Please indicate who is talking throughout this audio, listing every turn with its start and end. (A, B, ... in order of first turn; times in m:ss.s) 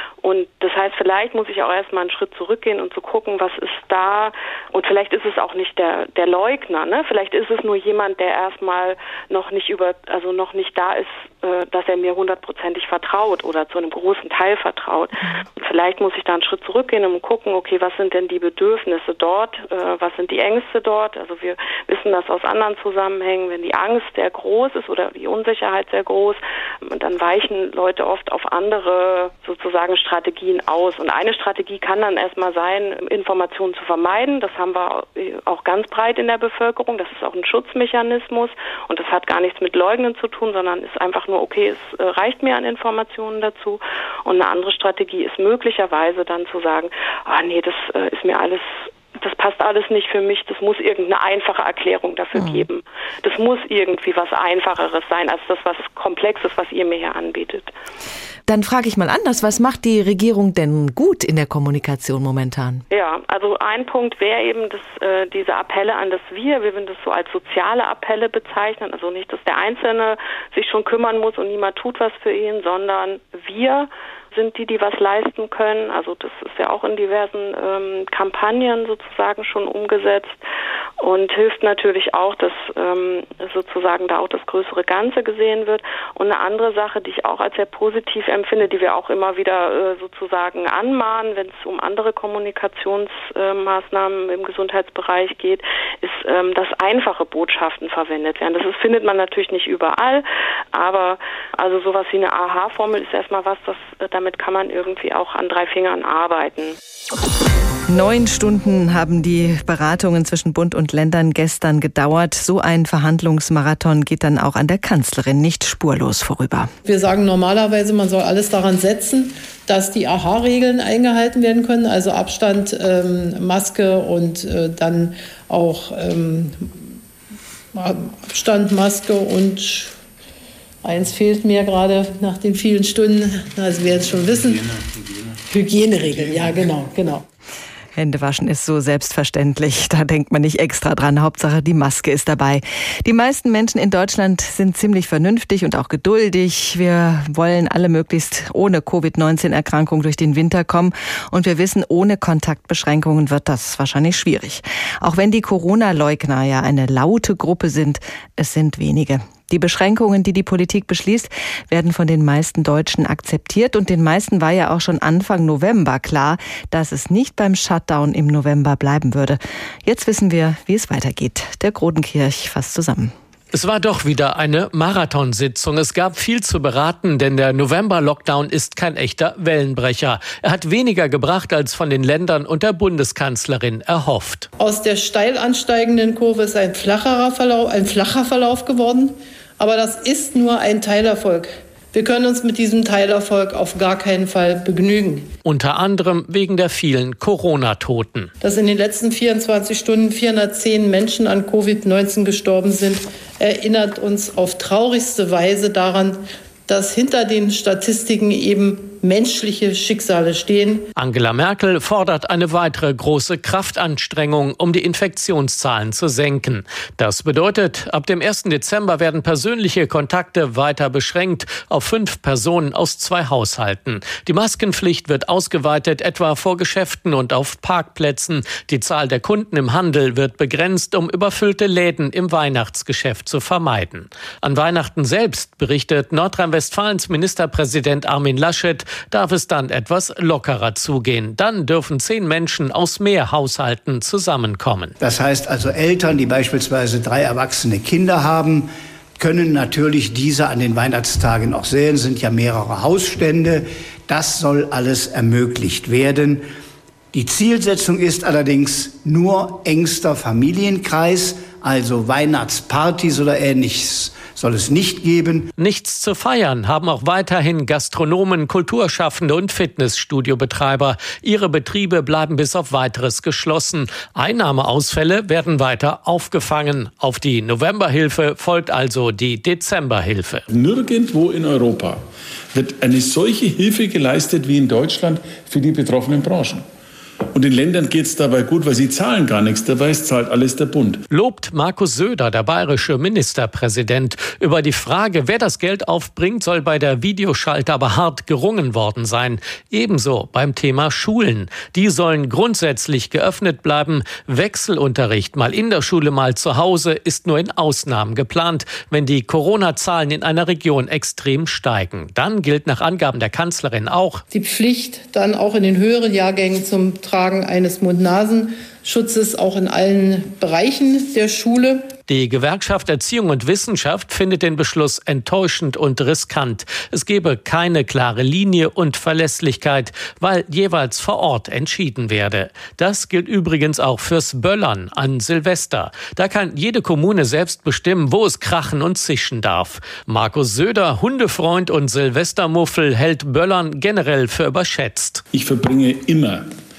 0:00.2-0:57.7 A
0:52.4-0:52.6 B
0:58.5-1:02.8 B
1:02.9-1:20.4 A
1:21.0-1:46.8 A
1:47.9-1:56.7 B
1:56.8-2:06.7 C
2:07.7-2:09.9 C
2:10.8-2:14.9 C
2:15.5-2:17.2 C
2:18.0-2:53.1 B
2:53.5-3:04.5 D
3:04.6-3:15.3 C
3:15.4-3:18.3 D
3:18.4-3:30.9 C
3:31.0-4:04.9 D
4:05.0-4:08.7 E
4:09.2-4:16.4 E
4:17.1-4:25.5 E
4:25.6-4:40.4 D
4:40.5-4:42.0 F
4:42.5-4:46.6 F
4:47.3-4:51.0 F
4:51.1-5:14.2 D
5:14.3-5:21.9 C
5:22.1-5:45.2 D
5:45.3-5:46.5 F